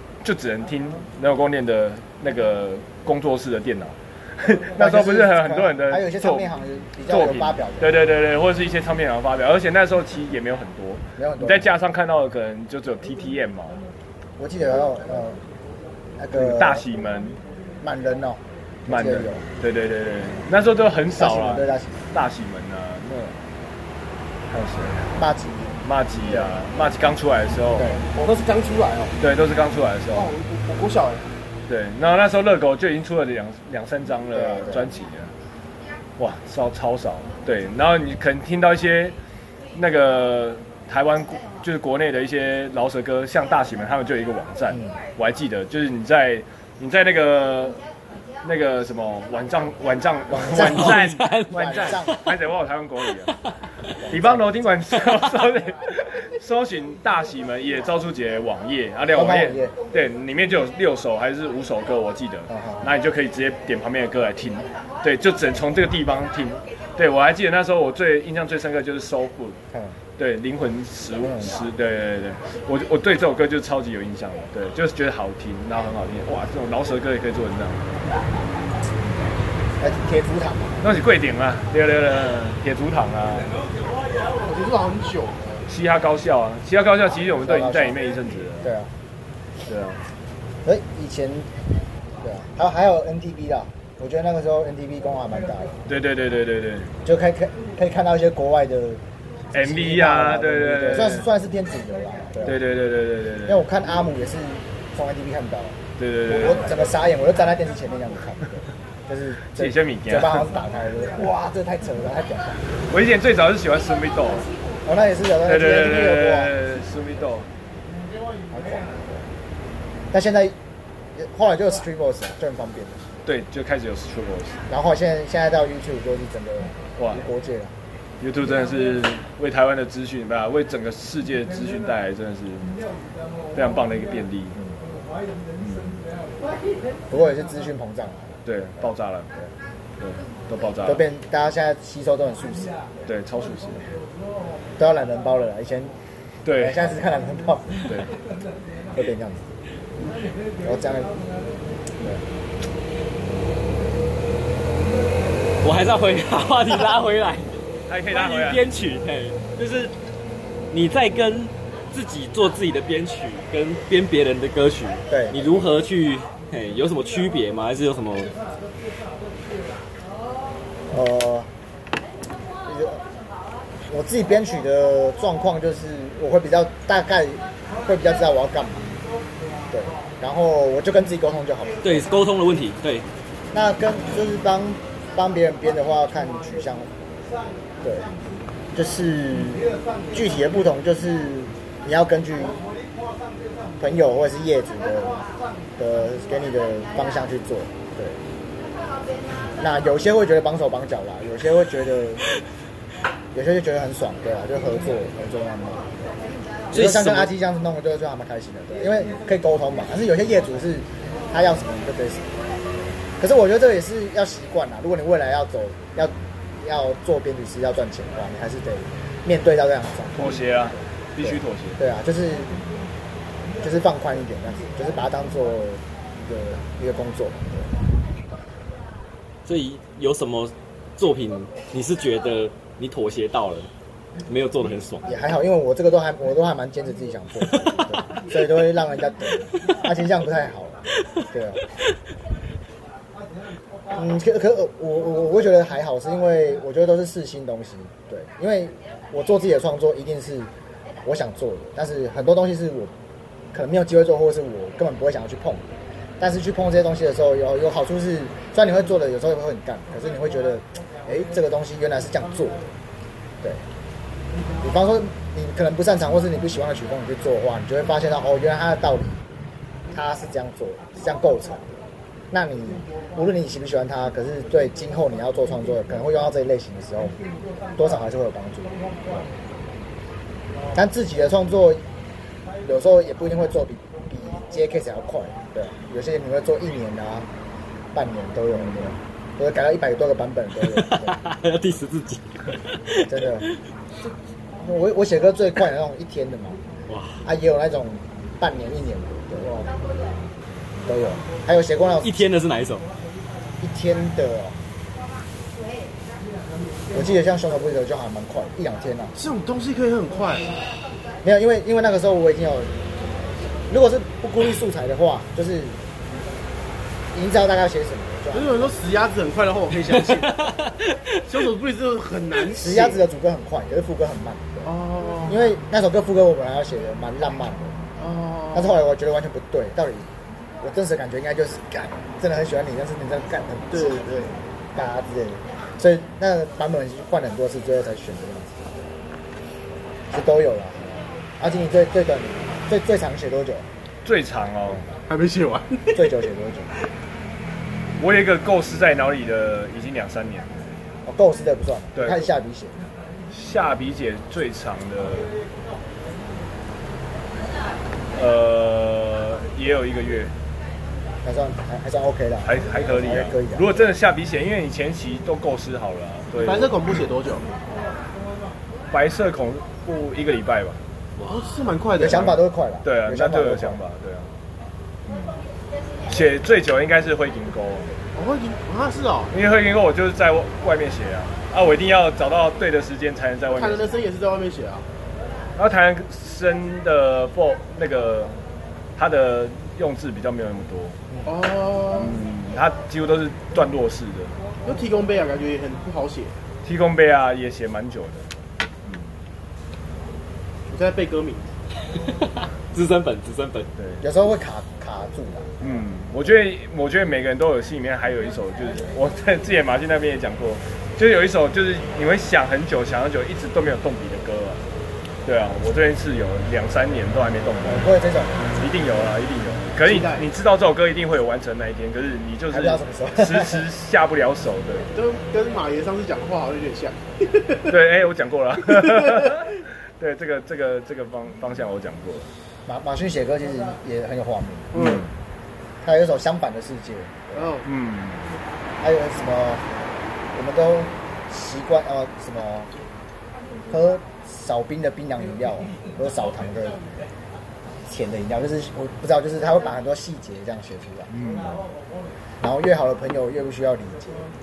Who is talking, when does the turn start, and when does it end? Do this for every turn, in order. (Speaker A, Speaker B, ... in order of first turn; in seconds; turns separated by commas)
Speaker A: 0.2-6.5, Speaker B: 4.8-7.9, Speaker A: 7.1-13.8, Speaker B: 11.2-11.7, Speaker B: 14.4-15.4, Speaker B: 16.2-16.9, Speaker A: 16.3-17.4, Speaker B: 17.8-19.4, Speaker A: 18.9-23.3, Speaker B: 21.1-22.0, Speaker A: 24.5-25.2, Speaker B: 25.1-26.5, Speaker A: 25.8-27.9, Speaker B: 27.8-28.0, Speaker C: 28.1-29.1, Speaker A: 29.2-30.3, Speaker C: 30.1-31.3, Speaker A: 31.7-35.3, Speaker B: 34.3-34.9, Speaker A: 36.2-39.2, Speaker A: 39.8-47.8, Speaker B: 44.7-45.0, Speaker A: 48.4-53.3, Speaker B: 50.3-52.2, Speaker D: 50.5-52.2, Speaker B: 54.0-54.6, Speaker A: 54.1-69.6, Speaker B: 59.1-59.8, Speaker B: 62.5-62.9, Speaker A: 70.2-77.8, Speaker B: 71.2-71.5, Speaker B: 79.8-80.8, Speaker A: 80.8-83.6, Speaker C: 84.4-85.7, Speaker A: 85.7-88.7, Speaker B: 87.4-88.0, Speaker B: 88.6-88.9, Speaker A: 89.7-90.0, Speaker B: 90.7-91.5, Speaker B: 92.2-95.8, Speaker A: 95.9-96.9, Speaker B: 97.0-102.6, Speaker A: 99.5-101.3, Speaker A: 102.5-103.6, Speaker B: 103.5-112.7, Speaker A: 106.0-106.8, Speaker A: 109.5-110.5, Speaker A: 112.9-114.5, Speaker B: 114.8-116.5, Speaker A: 115.4-117.5, Speaker B: 118.5-119.3, Speaker B: 120.1-120.5, Speaker B: 121.2-123.1, Speaker A: 123.2-124.6, Speaker B: 124.7-127.7, Speaker A: 127.0-127.2, Speaker A: 128.2-132.8, Speaker A: 133.5-134.6, Speaker A: 135.6-136.1, Speaker B: 137.1-138.4, Speaker A: 138.5-139.3, Speaker A: 140.0-141.0, Speaker B: 140.8-143.1, Speaker A: 143.1-143.9, Speaker B: 144.8-145.9, Speaker A: 146.4-146.9, Speaker B: 146.6-148.1, Speaker B: 148.9-149.4, Speaker B: 150.6-151.2, Speaker D: 155.6-157.6, Speaker A: 157.9-158.6, Speaker D: 158.1-159.9, Speaker D: 160.7-168.3, Speaker B: 165.1-165.6, Speaker B: 170.9-171.5, Speaker B: 172.7-173.0, Speaker B: 173.9-178.9, Speaker B: 179.7-182.1, Speaker D: 181.8-183.1, Speaker B: 183.5-186.9, Speaker B: 187.8-188.1, Speaker B: 188.7-192.6, Speaker B: 193.8-195.3, Speaker B: 195.8-198.2, Speaker B: 199.6-202.2, Speaker B: 203.3-212.3, Speaker D: 206.7-207.3, Speaker B: 213.2-222.6, Speaker A: 220.2-221.8, Speaker B: 223.6-227.7, Speaker D: 229.5-233.7, Speaker D: 234.3-235.1, Speaker B: 235.1-241.6, Speaker B: 243.9-250.5, Speaker B: 251.0-252.9, Speaker B: 253.5-262.6, Speaker B: 264.6-269.2, Speaker B: 269.9-277.2, Speaker B: 277.8-279.2, Speaker B: 280.7-281.8, Speaker B: 282.6-287.3, Speaker B: 287.9-291.2, Speaker D: 290.6-293.6, Speaker B: 293.1-293.5, Speaker B: 294.6-296.6, Speaker D: 296.9-297.2, Speaker B: 297.2-299.7, Speaker B: 300.9-302.2, Speaker D: 302.0-302.9, Speaker B: 303.6-304.6, Speaker B: 306.9-309.2, Speaker C: 309.1-310.6, Speaker B: 311.2-312.7, Speaker B: 313.7-315.8, Speaker B: 317.1-318.7, Speaker C: 318.3-320.5, Speaker D: 319.9-321.3, Speaker C: 321.3-323.0, Speaker B: 322.5-324.7, Speaker C: 324.6-325.5, Speaker B: 325.3-327.8, Speaker C: 328.0-328.8, Speaker B: 328.5-334.1, Speaker C: 333.7-334.4, Speaker B: 334.7-338.7, Speaker B: 340.1-343.7, Speaker A: 344.0-344.9, Speaker C: 345.1-346.1, Speaker B: 345.9-346.8, Speaker A: 348.0-350.6, Speaker B: 351.1-352.8, Speaker A: 351.9-352.3, Speaker A: 353.3-355.3, Speaker A: 358.1-360.3, Speaker B: 361.2-363.9, Speaker A: 362.4-366.8, Speaker C: 366.4-367.5, Speaker A: 368.9-370.8, Speaker C: 371.2-372.4, Speaker B: 372.0-373.8, Speaker A: 372.8-374.4, Speaker A: 376.1-378.0, Speaker C: 378.1-379.3, Speaker A: 379.3-383.9, Speaker C: 383.5-384.9, Speaker A: 385.6-388.4, Speaker A: 389.0-391.0, Speaker C: 391.2-392.2, Speaker A: 391.9-394.4, Speaker C: 394.6-396.4, Speaker A: 396.6-398.3, Speaker C: 400.7-401.5, Speaker D: 401.9-403.7, Speaker B: 404.0-405.5, Speaker A: 405.6-414.6, Speaker A: 415.2-417.9, Speaker B: 417.6-418.5, Speaker A: 418.6-424.9, Speaker C: 419.8-420.3, Speaker B: 422.5-423.6, Speaker C: 424.9-427.7, Speaker A: 427.7-432.3, Speaker C: 428.8-429.4, Speaker B: 432.7-435.0, Speaker C: 434.7-435.1, Speaker A: 434.7-435.1, Speaker B: 435.8-437.6, Speaker C: 437.3-437.7, Speaker A: 437.6-438.3, Speaker B: 438.8-439.6, Speaker B: 440.3-442.7, Speaker B: 443.7-446.8, Speaker B: 447.9-451.1, Speaker A: 451.1-451.7, Speaker B: 452.4-454.3